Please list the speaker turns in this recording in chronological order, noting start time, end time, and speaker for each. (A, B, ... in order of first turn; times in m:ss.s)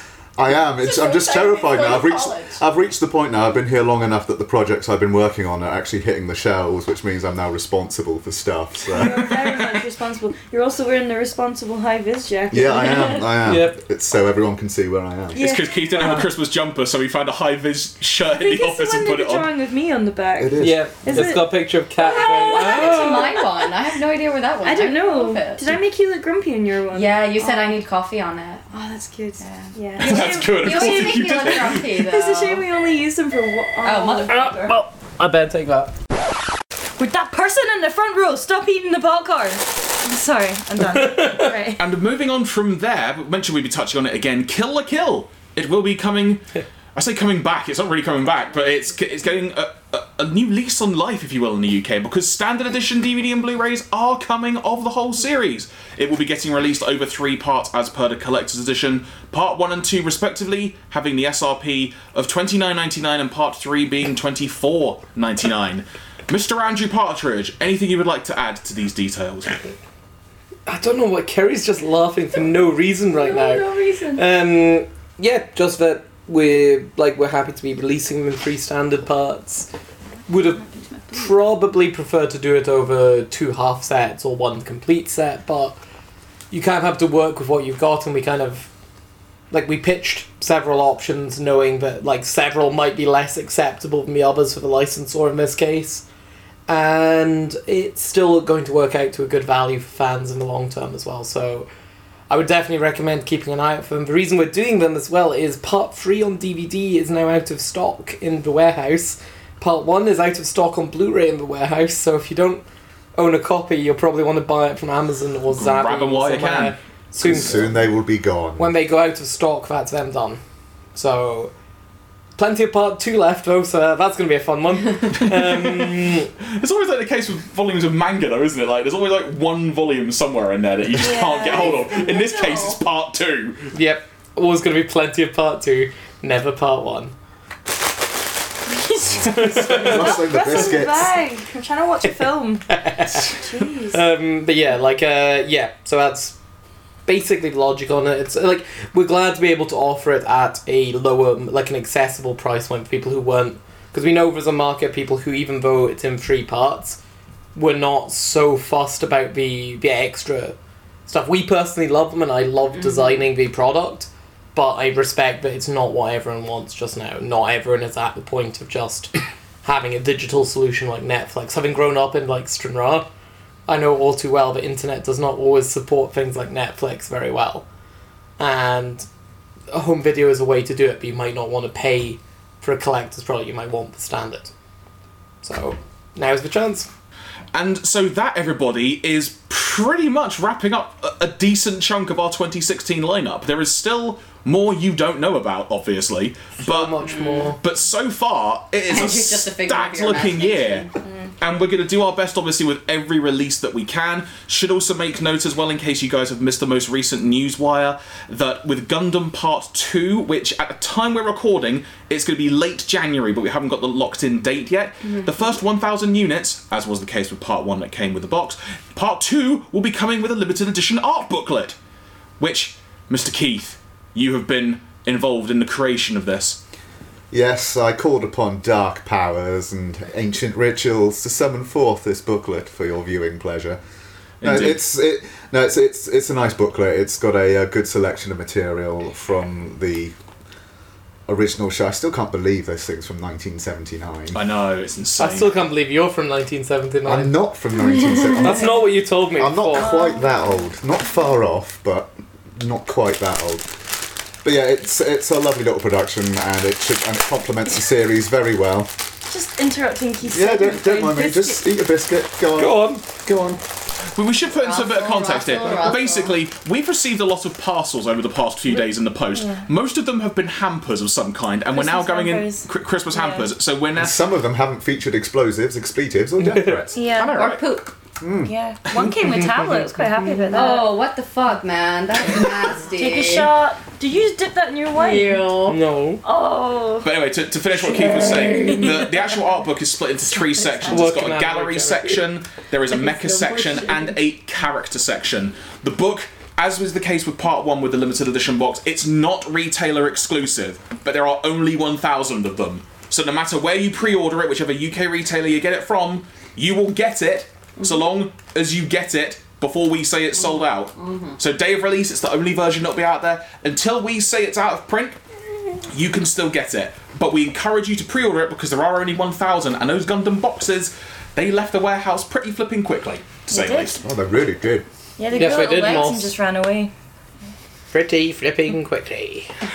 0:00.4-0:09.7 A
0:00.8-0:02.6 B
0:08.9-0:13.4 C
0:12.5-0:15.4 A
0:13.4-0:13.8 D
0:15.3-0:16.2 C
0:15.4-0:19.5 E
0:18.3-0:23.7 C
0:20.4-0:21.4 A
0:20.6-0:23.4 D
0:22.0-0:25.8 B
0:24.6-0:27.7 C
0:26.9-0:28.6 B
0:28.7-0:34.4 C
0:29.4-0:32.6 B
0:30.0-0:31.9 E
0:33.8-0:34.8 B
0:34.3-0:35.9 D
0:37.0-0:41.8 C
0:41.0-0:41.5 D
0:41.8-1:09.7 E
1:10.7-1:19.7 D
1:13.3-1:14.2 B
1:20.3-1:25.8 D
1:26.5-1:28.7 D
1:29.5-1:36.0 D
1:36.7-1:41.7 D
1:42.3-1:57.8 D
1:55.5-1:57.6 E
1:57.2-1:58.7 A
1:58.6-2:00.4 D
2:01.0-2:01.5 D
2:02.4-2:06.3 D
2:05.1-2:13.8 E
2:11.0-2:12.7 C
2:12.1-2:12.4 B
2:13.7-2:17.1 D
2:18.8-2:22.7 C
2:19.1-2:20.7 D
2:19.2-2:21.2 A
2:22.7-2:23.4 D
2:23.3-2:24.0 C
2:23.9-2:26.4 D
2:27.1-2:37.0 D
2:37.6-2:53.1 D
2:53.7-2:57.6 D
2:58.4-2:59.1 D
2:59.7-3:04.5 D
3:05.4-3:06.9 D
3:07.5-3:17.0 E
3:16.6-3:17.6 D
3:17.0-3:17.6 B
3:17.6-3:20.9 E
3:18.9-3:20.9 B
3:21.4-3:41.8 E
3:42.4-3:46.6 E
3:47.3-3:53.8 A
3:54.4-3:54.8 E
3:54.4-4:00.1 A
4:01.3-4:04.4 A
4:04.3-4:05.6 E
4:05.2-4:07.5 D
4:07.0-4:13.7 A
4:07.9-4:08.6 B
4:08.4-4:10.0 D
4:09.7-4:10.6 C
4:14.4-4:18.9 A
4:19.3-4:21.6 C
4:20.2-4:22.9 A
4:22.6-4:23.6 D
4:24.1-4:34.2 E
4:24.6-4:26.4 B
4:29.4-4:29.7 C
4:31.7-4:33.5 C
4:34.0-4:37.0 A
4:36.5-4:36.8 D
4:36.9-4:37.4 C
4:37.0-4:37.6 E
4:37.2-4:38.0 B
4:38.2-4:38.5 A
4:38.5-4:40.9 C
4:39.2-4:40.4 D
4:40.5-4:43.5 B
4:42.9-4:45.5 C
4:44.9-4:45.8 B
4:45.7-4:46.2 D
4:46.2-4:47.1 C
4:47.0-5:15.2 E
4:48.2-4:49.0 C
4:50.8-4:52.2 D
4:53.0-4:54.2 B
5:10.4-5:11.4 B
5:15.9-5:24.0 E
5:23.5-5:24.0 C
5:24.0-5:24.9 A
5:25.2-5:26.9 C
5:25.3-5:26.3 D
5:27.9-5:29.5 D